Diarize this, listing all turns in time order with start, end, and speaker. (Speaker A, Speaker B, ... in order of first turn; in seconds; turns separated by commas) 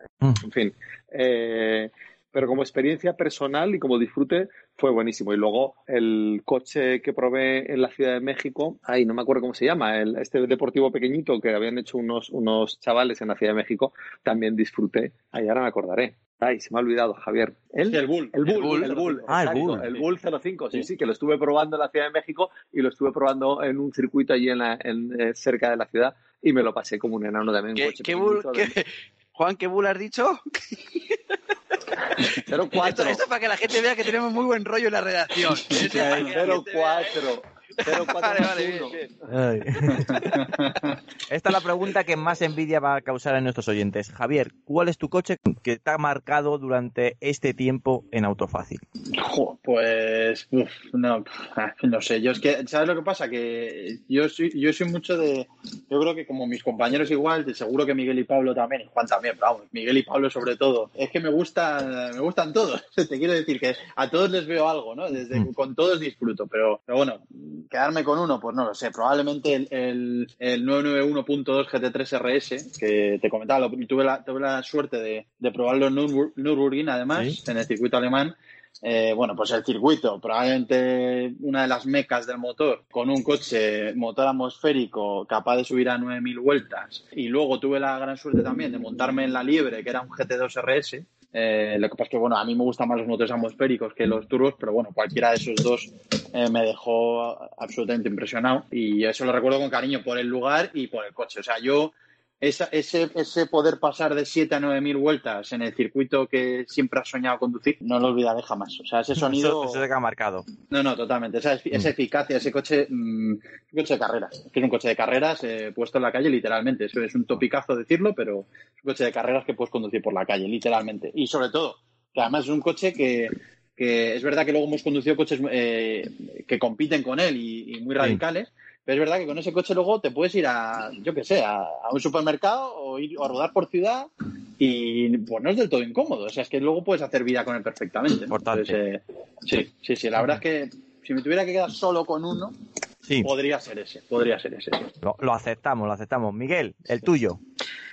Speaker A: 0.4-28.7, Speaker B: 17.9-20.1, Speaker C: 18.5-18.9, Speaker D: 19.3-19.9, Speaker C: 27.7-30.4, Speaker A: 32.3-33.2, Speaker C: 32.7-37.2, Speaker A: 35.7-39.1, Speaker C: 37.8-39.1, Speaker D: 39.3-40.2, Speaker C: 40.0-40.3, Speaker B: 40.4-40.9, Speaker D: 41.3-48.8, Speaker B: 49.1-109.8, Speaker D: 109.2-110.5, Speaker B: 110.7-142.5, Speaker D: 138.3-138.8, Speaker B: 143.2-144.8, Speaker D: 145.0-147.4